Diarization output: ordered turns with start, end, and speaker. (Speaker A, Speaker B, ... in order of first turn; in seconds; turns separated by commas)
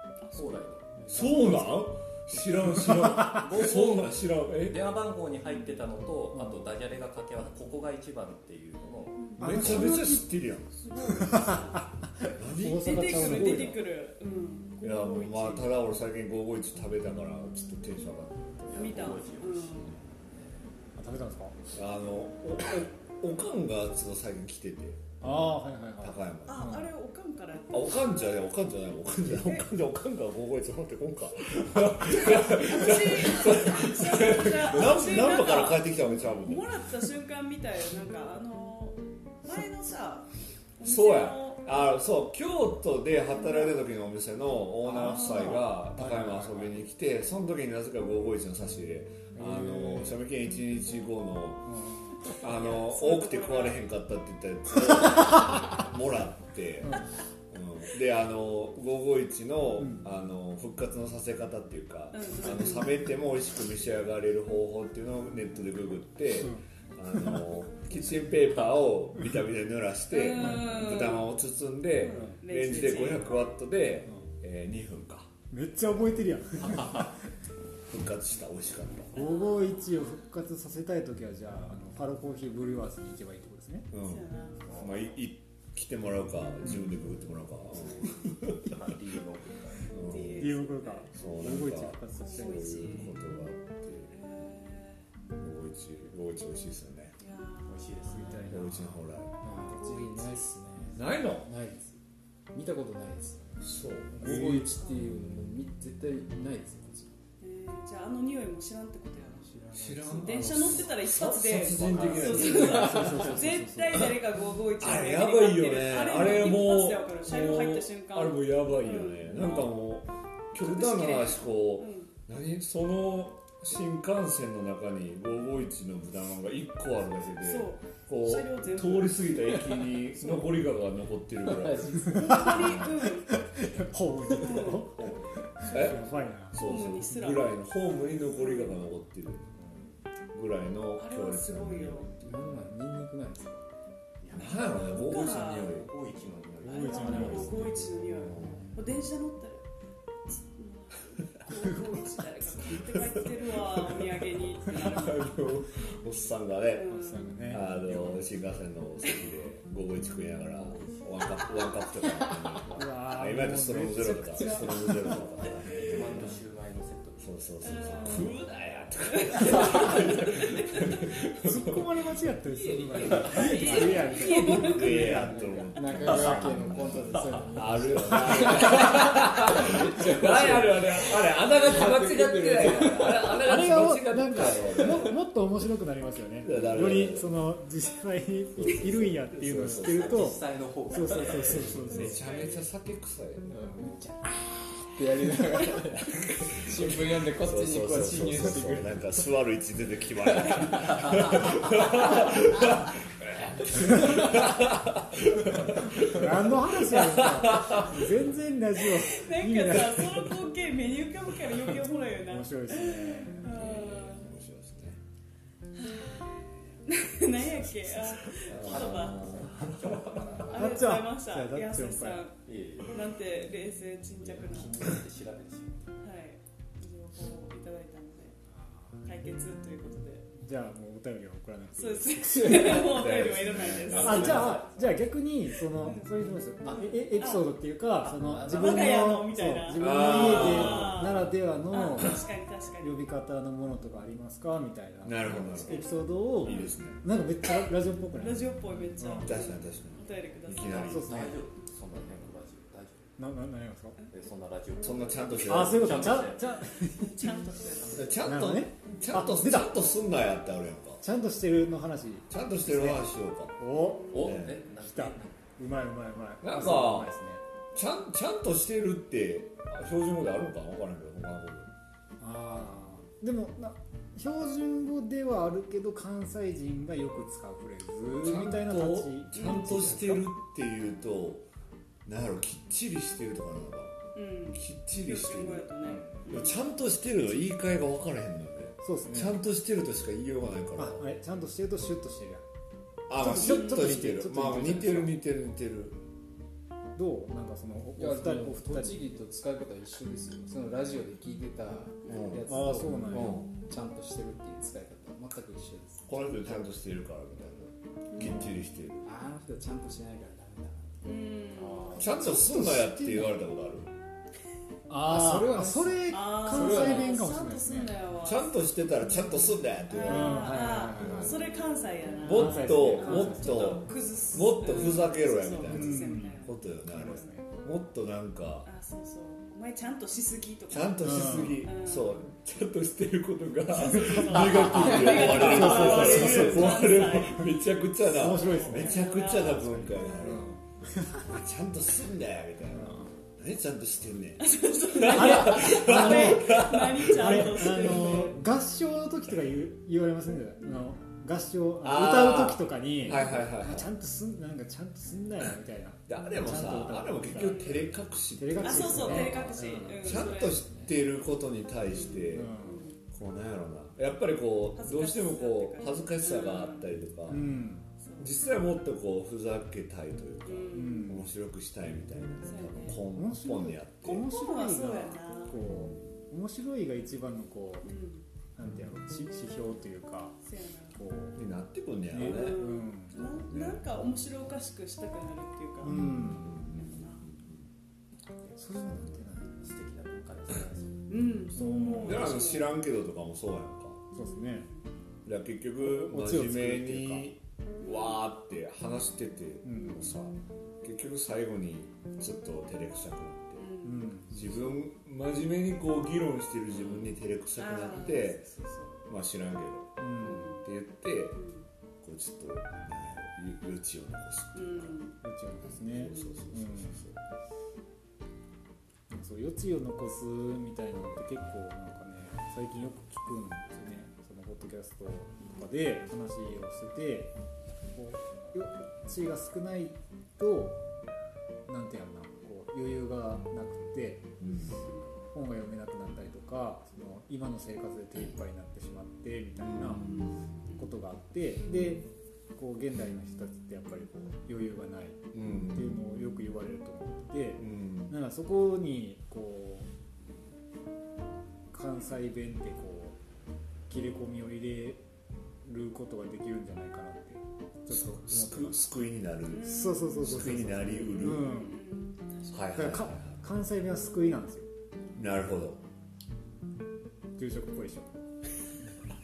Speaker A: 0.2-0.6, Speaker B: 0.3-1.6, Speaker C: 1.1-4.8, Speaker D: 1.1-1.5, Speaker D: 2.8-3.5, Speaker B: 2.9-9.4, Speaker D: 6.3-6.7, Speaker A: 9.2-10.2, Speaker D: 9.4-10.3, Speaker C: 9.4-11.5, Speaker A: 10.8-11.8, Speaker D: 11.1-13.7, Speaker C: 12.2-13.8, Speaker A: 12.7-15.8, Speaker C: 14.8-19.2, Speaker B: 18.7-20.7, Speaker A: 18.7-20.0, Speaker D: 20.9-21.5, Speaker C: 21.7-25.2, Speaker D: 25.2-26.9, Speaker C: 26.0-26.7, Speaker A: 26.5-28.1, Speaker C: 27.7-37.0, Speaker A: 29.3-29.6, Speaker A: 32.1-41.7, Speaker C: 40.8-51.7, Speaker A: 43.4-43.8, Speaker A: 44.9-45.6, Speaker D: 45.1-46.7, Speaker D: 49.3-50.2, Speaker D: 51.7-52.2, Speaker A: 52.3-53.9, Speaker C: 52.4-75.3, Speaker D: 59.8-60.0, Speaker A: 62.1-63.1, Speaker A: 70.1-71.3, Speaker D: 70.4-70.8, Speaker A: 71.9-73.5, Speaker D: 72.1-72.4, Speaker D: 75.5-77.2, Speaker B: 76.6-77.1, Speaker C: 77.9-79.2, Speaker A: 79.1-80.0, Speaker D: 79.1-83.9, Speaker C: 83.9-88.8, Speaker A: 84.0-84.9, Speaker B: 84.6-85.1, Speaker B: 88.5-90.5, Speaker C: 89.9-90.5, Speaker A: 90.0-91.1, Speaker D: 90.4-93.0, Speaker C: 91.1-94.2, Speaker A: 92.2-93.3, Speaker A: 94.1-95.0, Speaker C: 95.4-97.2, Speaker A: 97.2-98.5, Speaker B: 97.6-98.8, Speaker C: 98.5-99.3, Speaker E: 99.4-102.0, Speaker A: 99.6-100.5, Speaker C: 100.9-101.5, Speaker E: 102.5-107.2, Speaker C: 103.6-104.5, Speaker D: 104.2-104.7, Speaker A: 104.8-105.1, Speaker A: 107.4-109.5, Speaker E: 109.6-110.0, Speaker C: 109.7-113.4, Speaker D: 109.7-110.5, Speaker A: 110.0-119.7, Speaker B: 111.7-112.6, Speaker D: 112.6-114.1, Speaker C: 114.8-133.0, Speaker A: 120.6-122.1, Speaker A: 127.4-130.6, Speaker E: 131.5-132.8, Speaker D: 132.1-132.7, Speaker A: 132.1-133.4, Speaker D: 133.3-136.6, Speaker A: 134.3-134.9, Speaker C: 135.7-139.6, Speaker A: 136.5-138.8, Speaker C: 140.3-142.6, Speaker A: 141.0-142.1, Speaker E: 142.2-143.6, Speaker B: 144.2-148.3, Speaker C: 144.3-145.9, Speaker A: 144.8-145.8, Speaker D: 146.6-147.6, Speaker A: 146.7-149.6, Speaker C: 147.1-147.5, Speaker C: 148.1-148.7, Speaker A: 150.3-155.4, Speaker C: 152.8-156.9, Speaker A: 156.7-157.3, Speaker D: 156.9-158.0, Speaker C: 157.5-166.4, Speaker D: 162.7-165.2, Speaker B: 165.4-168.2, Speaker C: 167.2-171.9, Speaker A: 167.6-168.4, Speaker A: 169.1-171.0, Speaker B: 169.3-170.6, Speaker D: 171.4-176.5, Speaker C: 172.5-185.2, Speaker A: 173.1-175.1, Speaker B: 173.1-173.9, Speaker E: 175.2-183.4, Speaker B: 182.6-183.1, Speaker D: 183.4-192.2, Speaker C: 186.4-187.4, Speaker C: 188.5-190.4, Speaker B: 189.5-192.1, Speaker C: 191.8-193.5, Speaker A: 191.9-192.7, Speaker E: 193.5-199.2, Speaker C: 196.1-208.1, Speaker E: 200.3-201.4, Speaker D: 205.7-210.2, Speaker A: 208.9-214.3, Speaker D: 212.3-213.5, Speaker C: 213.4-215.0, Speaker A: 215.7-219.4, Speaker C: 217.9-220.3, Speaker B: 218.4-220.8, Speaker A: 220.3-225.0, Speaker D: 220.5-222.3, Speaker B: 222.4-223.1, Speaker B: 224.2-225.9, Speaker A: 226.0-228.4, Speaker D: 228.6-229.0, Speaker A: 229.0-230.3, Speaker D: 230.3-233.0, Speaker A: 231.8-234.6, Speaker C: 232.4-234.6, Speaker B: 233.4-235.0, Speaker D: 234.0-242.2, Speaker A: 235.8-236.1, Speaker B: 236.6-237.0, Speaker A: 236.8-237.5, Speaker B: 238.0-239.0, Speaker A: 238.4-242.9, Speaker C: 239.8-241.1, Speaker D: 242.8-249.3, Speaker C: 245.0-245.8, Speaker A: 245.4-246.6, Speaker C: 246.4-247.0, Speaker A: 248.2-250.9, Speaker C: 249.2-251.3, Speaker B: 250.6-253.1, Speaker D: 250.9-251.4, Speaker D: 253.2-254.0, Speaker B: 254.1-256.6, Speaker C: 254.8-256.2, Speaker D: 255.4-257.2, Speaker A: 256.9-258.2, Speaker B: 257.7-258.2, Speaker C: 257.9-261.0, Speaker D: 258.2-259.7, Speaker A: 258.8-259.1, Speaker D: 261.0-267.4, Speaker C: 262.3-263.6, Speaker B: 264.1-265.4, Speaker C: 264.1-264.6, Speaker C: 266.4-267.1, Speaker C: 267.7-271.7, Speaker D: 272.2-280.3, Speaker C: 278.2-281.4, Speaker C: 282.1-284.0, Speaker A: 284.1-286.5, Speaker C: 284.5-291.0, Speaker D: 288.8-289.4, Speaker D: 290.8-292.4, Speaker C: 293.1-296.0, Speaker D: 293.1-295.2, Speaker A: 293.3-294.1, Speaker D: 296.9-299.1, Speaker E: 297.9-306.3, Speaker A: 302.1-302.4, Speaker C: 302.1-302.4, Speaker D: 302.4-303.4, Speaker C: 303.1-303.5, Speaker C: 306.1-309.1, Speaker A: 308.1-308.4, Speaker D: 308.2-308.5, Speaker E: 309.0-311.0, Speaker A: 311.0-312.1, Speaker B: 311.6-312.1, Speaker C: 312.0-313.9, Speaker D: 312.1-313.4, Speaker D: 314.9-318.0, Speaker E: 315.0-317.1, Speaker A: 316.1-318.5, Speaker C: 318.2-321.1, Speaker A: 319.9-327.3, Speaker D: 320.0-321.4, Speaker C: 322.2-328.7, Speaker D: 322.3-323.8, Speaker D: 325.7-327.5, Speaker A: 328.6-332.3, Speaker C: 330.7-340.4, Speaker D: 331.0-331.6, Speaker A: 333.7-337.6, Speaker D: 334.0-334.3, Speaker D: 335.0-336.9, Speaker D: 338.1-339.0, Speaker A: 338.2-340.4, Speaker D: 340.2-341.2, Speaker C: 341.1-347.7, Speaker D: 342.7-343.1, Speaker A: 344.4-348.4, Speaker D: 345.1-357.7, Speaker A: 350.6-350.9, Speaker C: 351.8-353.9, Speaker C: 356.1-362.6, Speaker A: 357.4-357.8, Speaker D: 358.4-360.3, Speaker A: 358.6-360.7, Speaker A: 361.9-363.0, Speaker D: 362.3-362.9, Speaker C: 363.1-367.5, Speaker A: 364.7-366.9, Speaker D: 367.3-367.9, Speaker A: 368.0-368.3, Speaker C: 368.2-374.3, Speaker A: 370.4-371.2, Speaker D: 370.7-371.2, Speaker A: 372.4-373.0, Speaker D: 373.1-377.9, Speaker A: 374.0-375.6, Speaker A: 377.8-378.2, Speaker D: 378.6-380.4, Speaker A: 380.4-381.0, Speaker D: 380.9-381.4, Speaker C: 381.3-382.6, Speaker D: 382.1-383.2, Speaker A: 382.2-387.3, Speaker C: 383.1-384.0, Speaker D: 385.8-386.5, Speaker C: 386.1-387.6, Speaker D: 388.6-389.6, Speaker B: 389.6-391.2, Speaker A: 391.1-392.7, Speaker D: 391.5-392.3, Speaker C: 392.0-394.0, Speaker D: 394.1-394.7, Speaker A: 394.1-394.8, Speaker C: 395.2-403.7, Speaker D: 395.8-397.3, Speaker A: 397.8-398.2, Speaker D: 399.6-400.1, Speaker A: 403.6-404.1, Speaker D: 403.8-404.4, Speaker C: 404.3-408.4, Speaker A: 407.6-409.0, Speaker C: 409.1-411.4, Speaker D: 410.0-410.6, Speaker A: 410.2-410.6, Speaker A: 411.3-411.6, Speaker C: 412.0-415.0, Speaker A: 414.5-415.2, Speaker D: 415.2-417.0, Speaker C: 415.6-417.2, Speaker A: 416.0-416.4, Speaker D: 419.1-427.3, Speaker D: 427.9-430.8, Speaker D: 431.7-434.4, Speaker C: 434.4-434.8, Speaker D: 435.3-440.1, Speaker C: 439.6-440.2, Speaker A: 440.0-440.9, Speaker D: 440.7-449.9, Speaker C: 445.3-446.0, Speaker C: 447.6-448.1, Speaker D: 451.7-453.2, Speaker D: 453.9-455.0, Speaker D: 455.6-458.8, Speaker C: 457.9-461.5, Speaker A: 459.5-460.1, Speaker D: 459.6-461.8, Speaker A: 460.9-462.6, Speaker C: 462.5-463.4, Speaker D: 462.7-464.7, Speaker C: 465.1-465.8, Speaker D: 467.4-468.1